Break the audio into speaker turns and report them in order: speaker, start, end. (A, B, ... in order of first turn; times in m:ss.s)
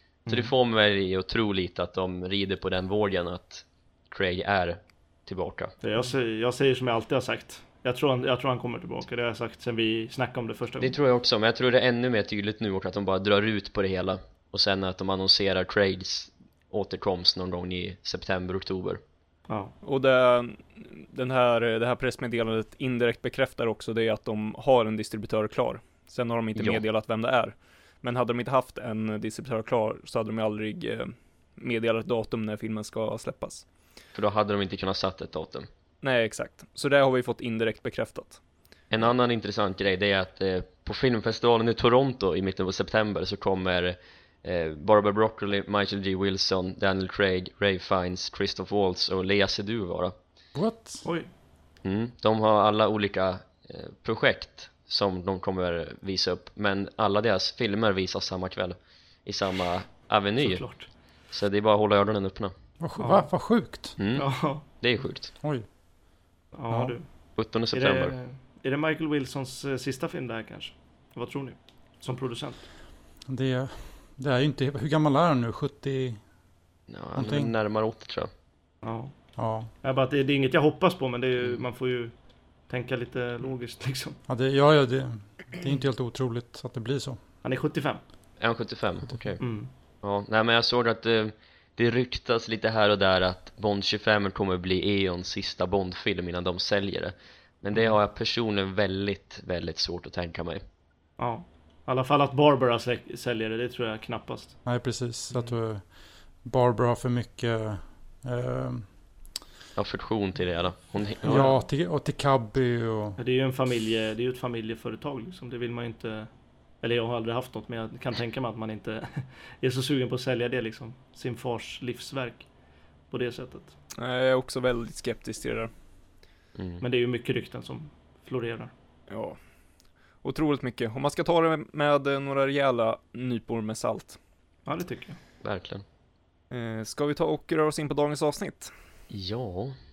0:00.2-0:00.5 A
0:00.3-0:05.7 B
0:05.8-0:11.0 A
0:10.8-0:19.0 B
0:19.5-0:19.7 A
0:19.8-0:33.6 C
0:26.6-0:26.8 B
0:34.1-0:35.7 B
0:36.0-0:38.4 C
0:38.9-0:50.1 B
0:50.5-0:51.1 D
0:51.0-0:51.3 A
0:51.8-1:02.5 B
1:00.4-1:00.9 A
1:02.8-1:04.0 D
1:03.0-1:03.3 A
1:04.0-1:05.4 B
1:04.1-1:04.6 A
1:05.4-1:05.7 D
1:06.5-1:12.6 A
1:06.7-1:07.0 D
1:07.3-1:08.1 B
1:13.2-1:16.2 D
1:16.9-1:18.3 B
1:17.1-1:17.5 D
1:18.8-1:24.2 A
1:19.3-1:19.7 D
1:21.4-1:21.6 B
1:24.3-1:27.2 D
1:27.4-1:28.0 A
1:28.4-1:40.6 B
1:29.4-1:29.7 A
1:41.2-1:44.6 A
1:44.6-1:49.0 D
1:49.8-1:51.6 B
1:51.2-1:53.2 D
1:53.2-2:02.5 A
2:03.1-2:03.7 A
2:04.0-2:05.7 C
2:06.6-2:06.8 B
2:06.8-2:08.7 A
2:09.1-2:09.4 C
2:10.2-2:14.2 C
2:14.6-2:15.2 A
2:15.4-2:15.8 B
2:16.5-2:18.7 C
2:19.1-2:19.8 B